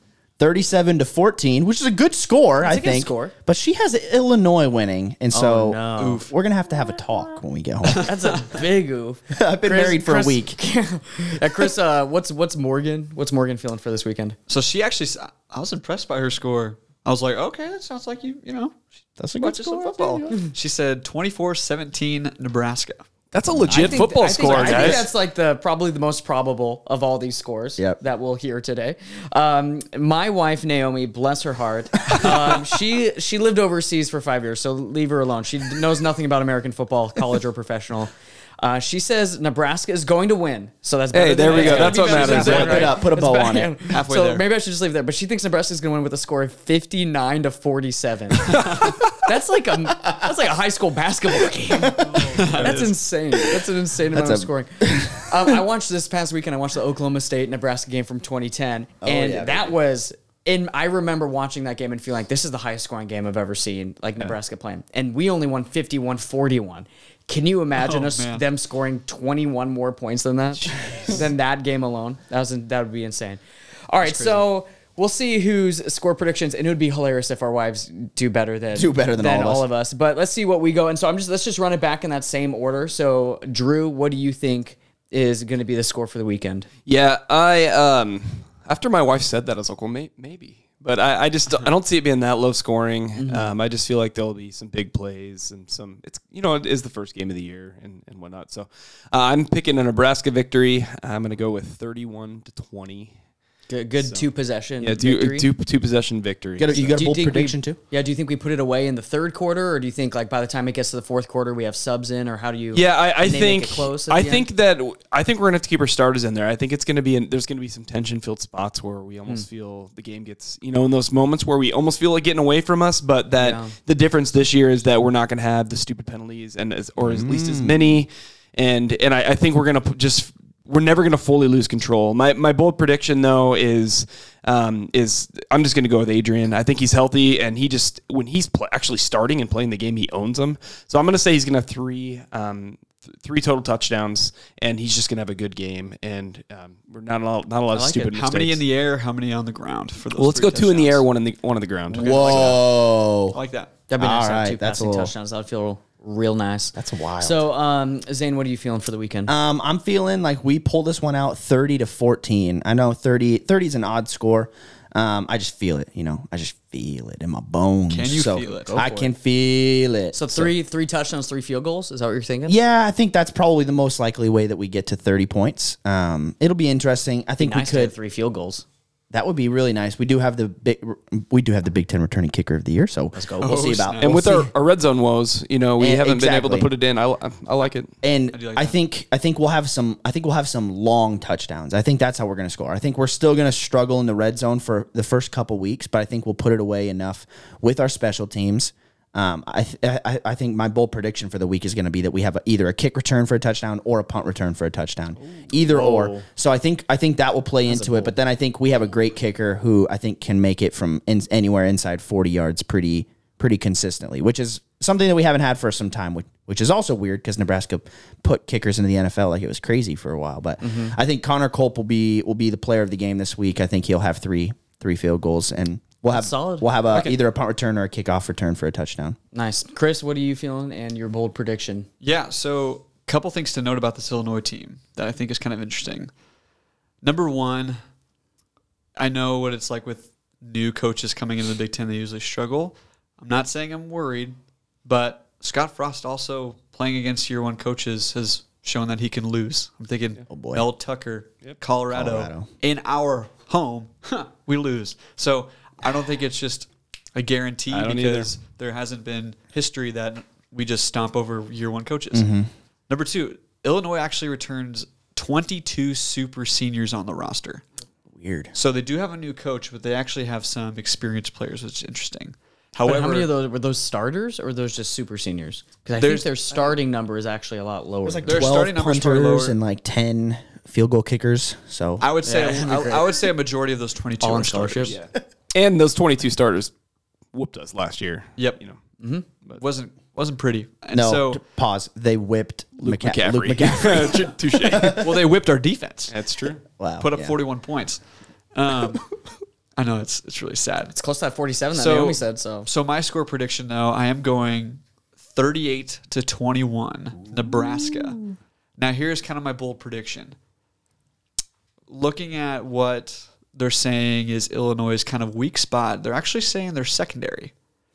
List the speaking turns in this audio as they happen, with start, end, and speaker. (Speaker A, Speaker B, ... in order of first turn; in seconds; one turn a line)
Speaker A: 0.4-8.1
Speaker B: 2.6-3.3
Speaker B: 5.3-6.2
Speaker C: 6.0-6.3
Speaker B: 7.9-14.4
Speaker A: 9.3-10.6
Speaker C: 14.5-18.9
Speaker A: 19.2-20.3
Speaker C: 19.4-23.0
Speaker D: 23.3-25.1
Speaker B: 23.7-86.7
Speaker A: 24.4-25.1
Speaker D: 41.1-42.9
Speaker C: 41.5-42.8
Speaker A: 41.7-43.7
Speaker C: 43.9-44.4
Speaker D: 48.5-48.9
Speaker C: 48.6-49.0
Speaker A: 51.8-52.2
Speaker C: 52.3-52.8
Speaker D: 52.4-52.9
Speaker A: 54.1-55.5
Speaker A: 59.0-59.8
Speaker C: 67.7-68.5
Speaker A: 70.7-71.2
Speaker C: 74.0-74.4
Speaker A: 78.7-79.7
Speaker D: 86.8-103.1
Speaker B: 93.2-93.5
Speaker B: 103.7-105.5
Speaker D: 104.0-107.0
Speaker A: 106.6-107.8
Speaker B: 106.9-114.5
Speaker D: 112.7-148.6
Speaker B: 123.4-123.7
Speaker A: 127.0-128.0
Speaker B: 147.7-148.1
Speaker C: 148.1-151.0
Speaker D: 150.1-152.6
Speaker C: 151.9-152.6
Speaker A: 151.9-153.4
Speaker C: 153.3-153.7
Speaker B: 153.9-159.3
Speaker A: 154.0-155.1
Speaker A: 156.8-157.4
Speaker A: 159.3-170.5
Speaker C: 167.9-168.7
Speaker B: 168.7-169.1
Speaker B: 170.1-172.6
Speaker A: 172.5-177.9
Speaker B: 177.4-178.6
Speaker A: 179.1-184.5
Speaker B: 183.1-183.6
Speaker C: 183.4-184.1
Speaker D: 184.0-187.9
Speaker A: 185.8-186.7
Speaker A: 188.0-229.2
Speaker C: 188.3-188.8
Speaker B: 205.5-206.3
Speaker B: 207.7-208.1
Speaker B: 220.6-220.9
Speaker B: 226.1-227.2
Speaker B: 229.3-231.9
Speaker C: 232.0-236.1
Speaker C: 237.0-237.8
Speaker C: 238.9-262.3
Speaker A: 250.3-250.7
Speaker A: 251.9-252.5
Speaker D: 257.7-258.3
Speaker A: 262.1-262.5
Speaker C: 262.9-267.6
Speaker A: 268.1-268.5
Speaker C: 268.5-273.3
Speaker B: 272.8-278.5
Speaker C: 276.0-276.3
Speaker A: 278.0-282.0
Speaker C: 278.2-279.6
Speaker C: 282.0-285.0
Speaker B: 282.2-283.1
Speaker B: 284.2-285.0
Speaker D: 284.9-286.7
Speaker D: 287.3-288.8
Speaker B: 289.0-289.2
Speaker C: 289.6-291.4
Speaker A: 290.9-295.1
Speaker D: 292.8-295.0
Speaker C: 294.8-296.1
Speaker D: 296.1-296.6
Speaker A: 296.8-297.3
Speaker C: 297.0-299.1
Speaker C: 299.8-300.9
Speaker B: 300.9-302.7
Speaker C: 301.7-310.4
Speaker C: 311.9-317.5